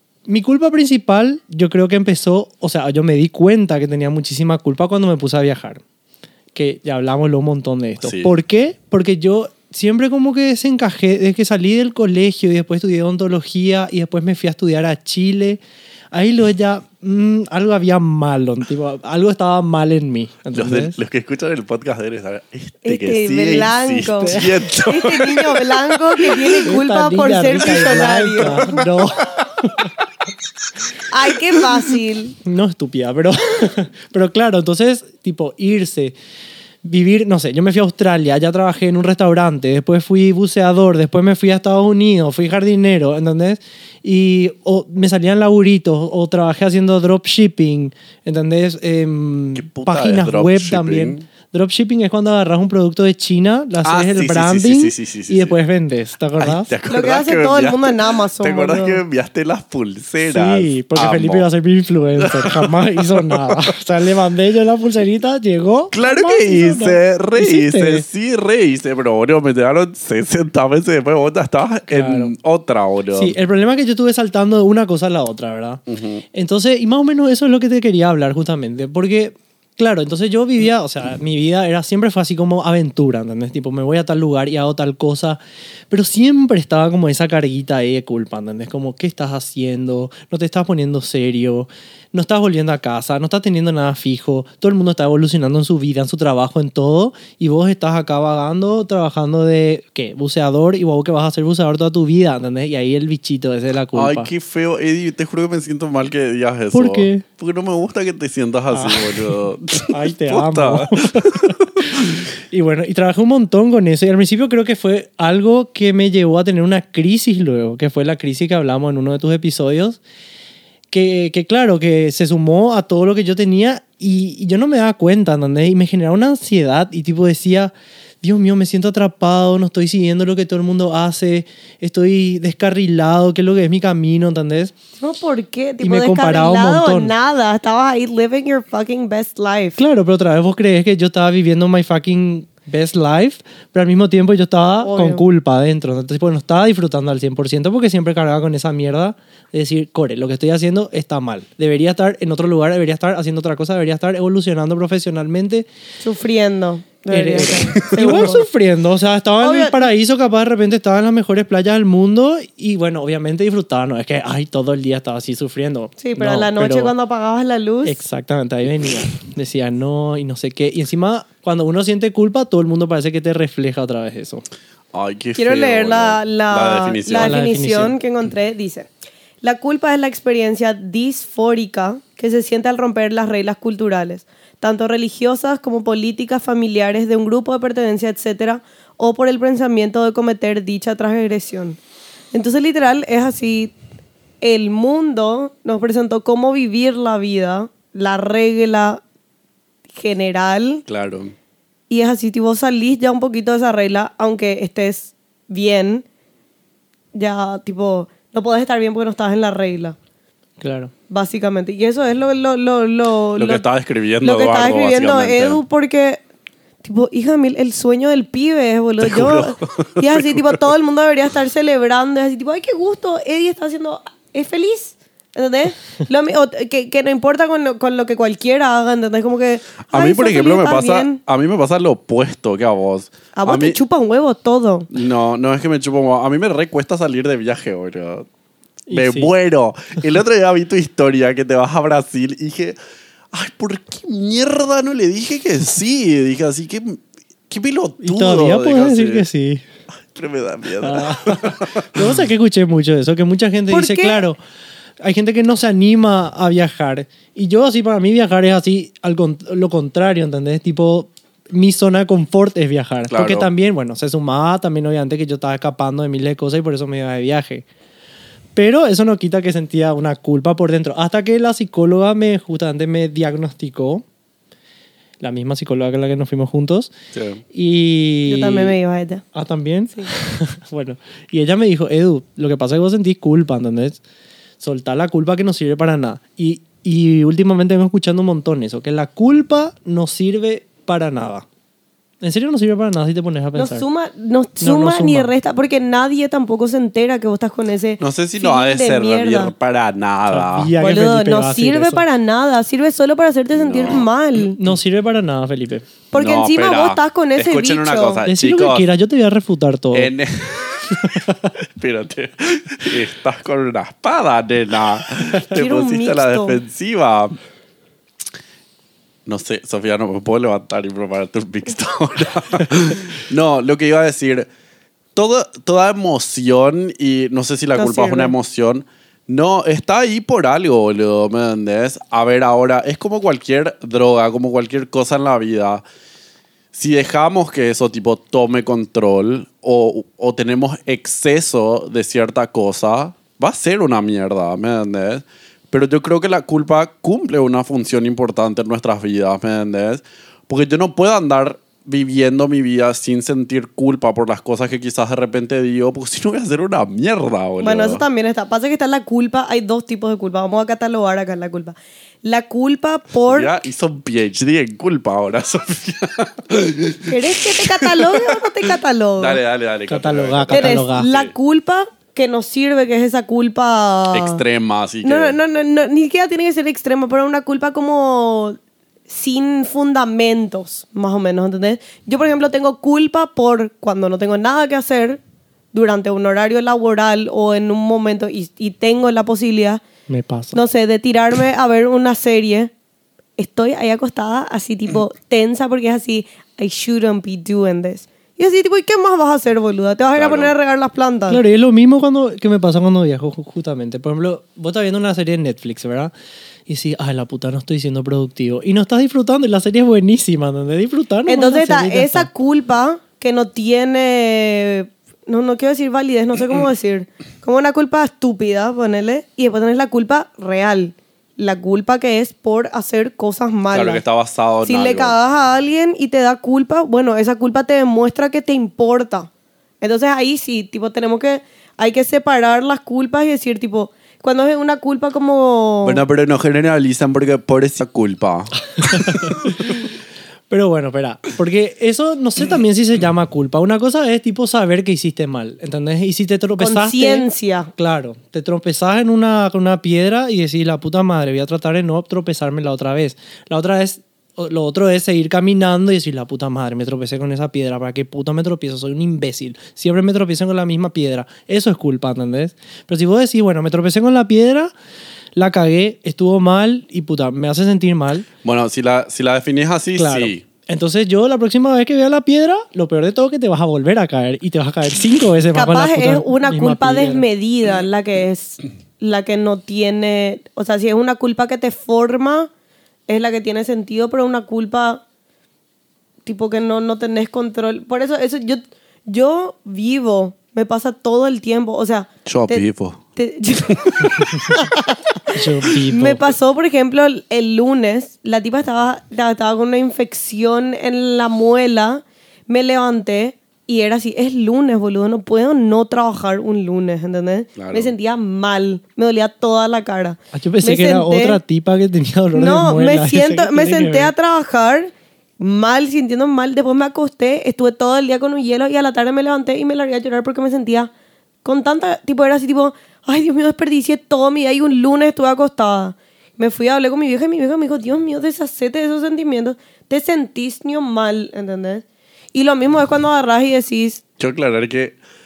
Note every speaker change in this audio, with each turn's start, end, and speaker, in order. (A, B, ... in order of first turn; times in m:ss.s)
0:00.3-0:05.8 A
0:06.5-0:15.6 A
0:08.0-0:08.3 B
0:16.1-0:21.0 A
0:20.5-0:26.6 B
0:22.8-0:28.7 C
0:24.2-0:24.7 A
0:26.6-0:29.9 A
0:28.6-0:29.9 B
0:31.1-0:32.4 C
0:32.4-0:36.1 A
0:36.8-0:56.7 A
0:49.6-0:51.2 B
0:53.8-0:55.6 B
0:56.4-1:01.5 B
0:56.9-0:59.0 C
1:00.2-1:08.0 A
1:02.2-1:03.5 B
1:05.9-1:13.4 B
1:11.9-1:12.3 A
1:13.1-1:15.8 A
1:15.9-1:16.2 B
1:16.3-1:44.3 A
1:43.9-1:52.2 B
1:46.7-1:47.2 A
1:48.7-1:49.3 A
1:49.9-2:00.0 A
2:00.9-2:14.7 A
2:15.0-2:19.8 C
2:15.8-2:17.1 A
2:19.8-2:35.7 A
2:24.8-2:25.2 C
2:36.0-2:38.4 C
2:37.1-2:46.9 A
2:39.4-2:39.9 C
2:46.0-2:48.0 C
2:47.8-2:54.4 A
2:54.9-2:57.4 B
2:55.4-2:58.9 C
2:57.1-2:58.0 A
2:59.4-3:11.8 C
3:12.3-3:13.7 C
3:14.4-3:19.0 C
3:19.9-3:20.8 C
3:20.9-3:21.3 B
3:21.9-3:26.0 C
3:27.1-3:30.0 C
3:30.6-3:30.9 A
3:31.1-3:33.6 C
3:33.4-3:35.6 B
3:34.2-3:36.2 C
3:36.8-3:51.2 C
3:39.0-3:40.6 B
3:49.9-3:53.8 B
3:53.4-3:54.9 C
3:54.9-3:58.3 B
3:58.9-3:59.3 A
3:58.9-4:02.8 B
4:03.3-4:09.2 B
4:08.0-4:09.6 A
4:10.1-4:12.1 B
4:10.8-4:14.4 A
4:13.7-4:14.2 C
4:15.0-4:27.7 A
4:23.1-4:23.5 B
4:28.6-4:34.0 A
4:35.2-4:36.9 A
4:37.1-4:37.4 B
4:37.5-4:38.8 A
4:38.3-4:39.2 C
4:39.3-4:44.0 A
4:44.6-4:51.4 A
4:52.2-4:53.8 A
4:53.6-4:59.5 C
4:54.6-4:55.3 A
4:58.0-5:00.7 B
5:00.3-5:02.0 A
5:00.8-5:04.6 C
5:03.5-5:04.1 B
5:04.5-5:05.9 A
5:06.1-5:08.2 C
5:06.2-5:08.8 B
5:08.2-5:10.1 A
5:09.9-5:11.2 B
5:11.0-5:11.3 A
5:11.8-5:17.4 B
5:15.5-5:16.6 C
5:19.3-5:24.5 B
5:25.2-5:35.8 B
5:27.8-5:28.3 C
5:36.7-5:58.0 B
5:57.6-6:03.6 C
6:03.3-6:08.7 B
6:07.1-6:09.4 C
6:09.2-6:11.3 B
6:09.9-6:11.1 A
6:10.5-6:14.4 C
6:14.1-6:15.4 B
6:15.0-6:18.6 C
6:19.1-6:25.2 C
6:25.7-6:29.8 C
6:30.1-6:30.6 A
6:30.5-6:32.7 C
6:33.4-6:41.4 C
6:40.1-6:40.5 B
6:41.3-6:46.1 A
6:46.7-6:52.3 A
6:51.3-7:04.0 C
7:03.7-7:05.2 B
7:04.7-7:09.3 C
7:09.8-7:16.0 C
7:15.8-7:19.4 B
7:18.9-7:19.7 A
7:20.5-7:44.7 A
7:26.6-7:27.7 C
7:45.3-7:48.2 A
7:48.4-7:50.4 B
7:50.0-7:57.2 A
7:55.6-8:02.5 C
8:03.1-8:05.0 C
8:06.2-8:12.6 C
8:12.2-8:14.6 B
8:13.2-8:31.4 C
8:15.3-8:16.2 A
8:27.6-8:27.9 B
8:30.3-8:34.1 A
8:32.4-8:40.9 C
8:41.4-8:54.0 C
8:54.2-8:54.9 B